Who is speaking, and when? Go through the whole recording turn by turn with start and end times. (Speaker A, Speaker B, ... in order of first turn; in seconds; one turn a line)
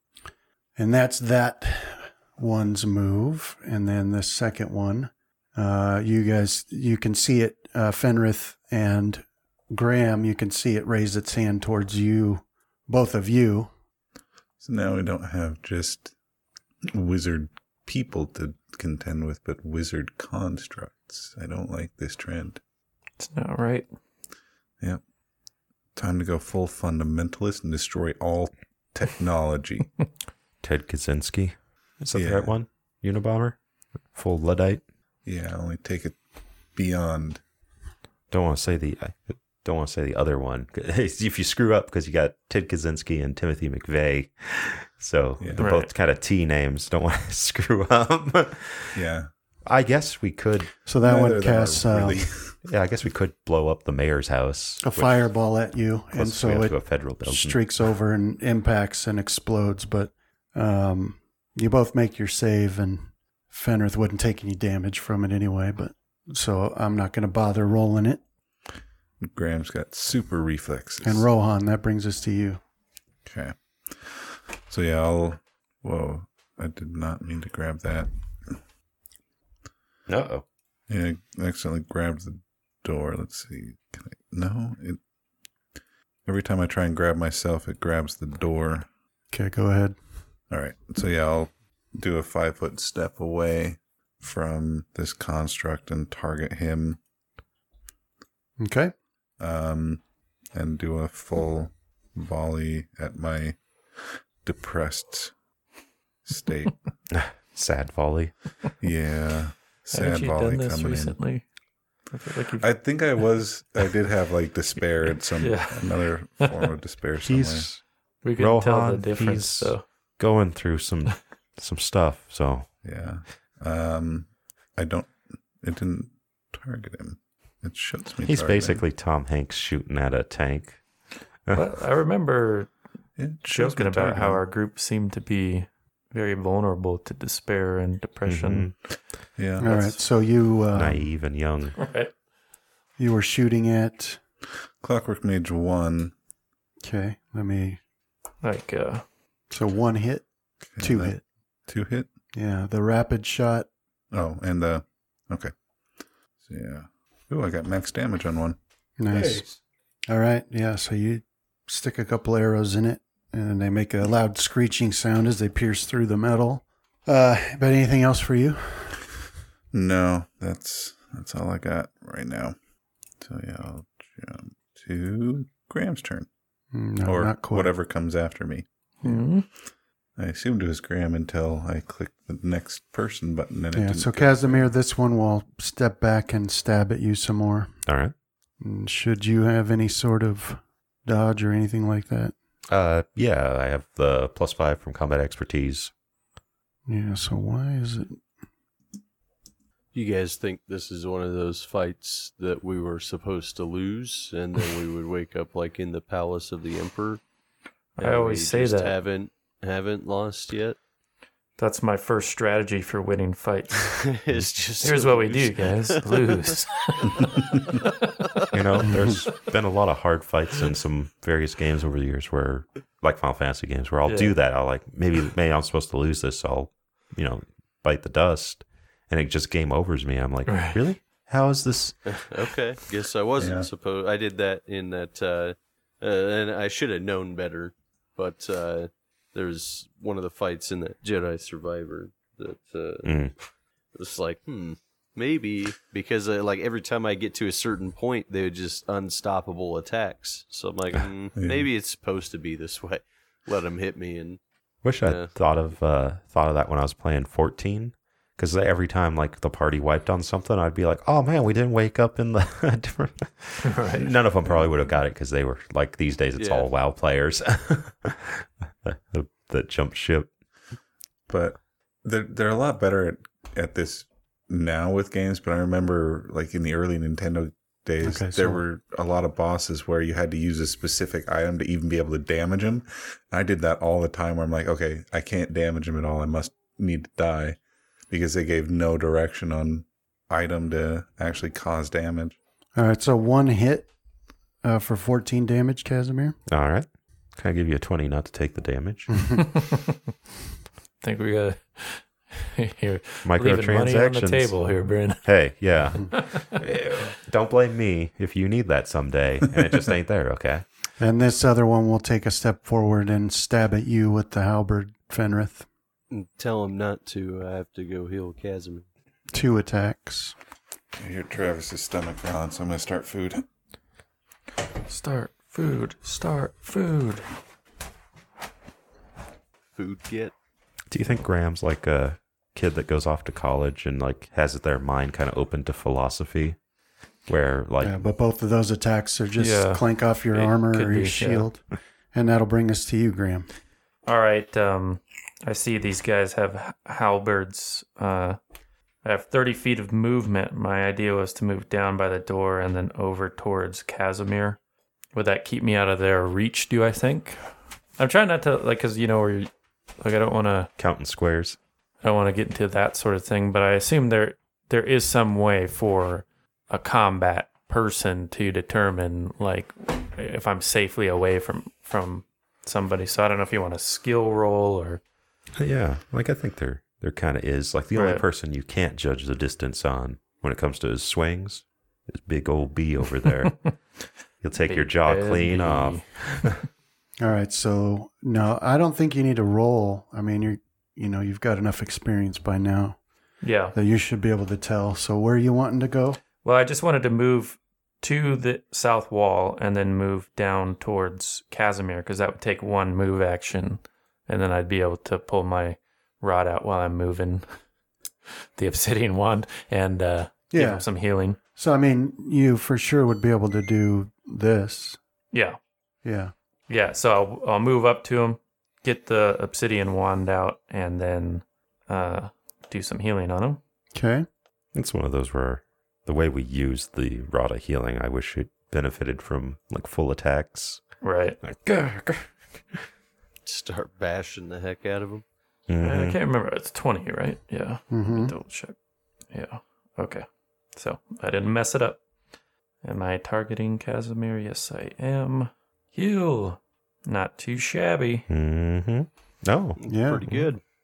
Speaker A: 0.8-13.7
Speaker B: 14.6-16.1
Speaker B: 16.9-22.6
Speaker C: 23.2-23.9
Speaker B: 25.9-29.9
Speaker D: 30.6-33.5
Speaker B: 32.1-32.5
Speaker D: 34.1-34.8
Speaker B: 35.2-36.2
Speaker B: 36.7-37.4
Speaker D: 38.3-49.0
Speaker B: 45.4-45.7
Speaker C: 45.6-45.9
Speaker B: 48.9-49.3
Speaker D: 49.6-50.7
Speaker A: 50.9-52.2
Speaker B: 51.0-52.5
Speaker D: 52.6-55.3
Speaker A: 54.8-68.2
Speaker D: 56.1-57.6
Speaker B: 69.2-71.3
Speaker A: 71.0-72.6
Speaker B: 73.2-78.6
Speaker D: 80.1-80.4
Speaker B: 80.9-85.0
Speaker B: 86.2-88.9
Speaker A: 89.3-90.0
Speaker B: 90.5-97.0
Speaker A: 98.6-98.9
Speaker B: 99.4-100.0
Speaker B: 100.5-103.6
Speaker B: 104.4-105.3
Speaker B: 106.2-106.8
Speaker D: 107.1-108.3
Speaker B: 108.8-111.2
Speaker C: 109.9-111.4
Speaker C: 112.1-112.7
Speaker B: 112.6-117.7
Speaker C: 115.3-116.5
Speaker D: 117.2-117.8
Speaker C: 118.2-119.8
Speaker D: 118.4-122.7
Speaker B: 122.8-128.8
Speaker D: 128.2-130.8
Speaker C: 131.5-132.7
Speaker B: 133.2-134.4
Speaker C: 133.5-138.7
Speaker D: 138.2-138.7
Speaker B: 139.4-139.7
Speaker C: 139.6-140.0
Speaker A: 139.6-141.1
Speaker D: 140.7-141.8
Speaker C: 141.8-142.1
Speaker A: 143.0-144.2
Speaker B: 144.8-146.1
Speaker A: 146.8-147.8
Speaker C: 148.4-149.0
Speaker A: 149.5-150.2
Speaker B: 150.7-152.1
Speaker A: 150.8-151.2
Speaker A: 152.3-153.7
Speaker B: 154.1-155.5
Speaker B: 156.4-158.6
Speaker A: 159.0-159.4
Speaker A: 160.1-169.0
Speaker B: 169.7-172.6
Speaker B: 173.2-176.3
Speaker A: 176.7-177.7
Speaker B: 177.0-178.7
Speaker C: 179.0-179.5
Speaker B: 180.2-184.7
Speaker A: 183.7-187.7
Speaker D: 187.9-188.1
Speaker A: 188.6-192.3
Speaker D: 192.7-195.9
Speaker A: 196.9-198.2
Speaker E: 199.9-207.2
Speaker C: 207.9-208.9
Speaker E: 208.0-210.8
Speaker C: 211.6-214.1
Speaker E: 214.1-216.5
Speaker C: 214.8-218.1
Speaker D: 218.5-232.1
Speaker C: 224.0-224.3
Speaker C: 230.4-230.8
Speaker E: 232.1-243.3
Speaker B: 233.4-233.7
Speaker D: 243.0-243.3
Speaker E: 243.9-254.4
Speaker B: 251.4-251.7
Speaker D: 254.8-270.3
Speaker E: 255.0-255.3
Speaker C: 263.6-264.1
Speaker E: 266.4-266.7
Speaker B: 271.3-287.6
Speaker A: 278.0-278.6
Speaker B: 288.1-292.4
Speaker A: 292.8-293.9
Speaker A: 294.6-296.4
Speaker D: 296.5-299.3
Speaker C: 299.4-299.9
Speaker C: 301.0-305.3
Speaker D: 303.2-304.5
Speaker D: 305.2-310.6
Speaker C: 306.0-306.6
Speaker A: 311.0-315.6
Speaker E: 316.1-318.9
Speaker A: 319.3-320.3
Speaker B: 321.0-323.4
Speaker C: 324.8-327.3
Speaker E: 329.7-330.3
Speaker D: 330.9-336.6
Speaker D: 337.3-338.0
Speaker A: 337.8-343.5
Speaker C: 339.4-341.5
Speaker C: 344.1-348.4
Speaker C: 349.0-354.6
Speaker C: 355.1-360.7
Speaker D: 360.8-361.6
Speaker C: 362.0-375.0
Speaker D: 375.6-383.7
Speaker C: 377.9-378.2
Speaker D: 384.4-386.6
Speaker C: 384.6-386.6
Speaker A: 387.2-393.0
Speaker C: 393.4-393.8
Speaker A: 393.7-396.2
Speaker C: 396.4-407.4
Speaker C: 408.6-411.4
Speaker A: 410.5-410.8
Speaker A: 411.6-415.0
Speaker C: 415.3-415.6
Speaker A: 416.0-416.3
Speaker C: 416.7-423.6
Speaker A: 423.9-424.3
Speaker D: 424.7-430.8
Speaker C: 431.0-431.4
Speaker D: 431.4-432.3
Speaker E: 433.4-435.2
Speaker D: 435.7-436.2
Speaker C: 435.8-438.8
Speaker A: 437.9-438.3
Speaker C: 439.3-442.0
Speaker C: 442.8-448.3
Speaker D: 448.3-449.8
Speaker E: 449.8-450.6
Speaker A: 449.9-450.3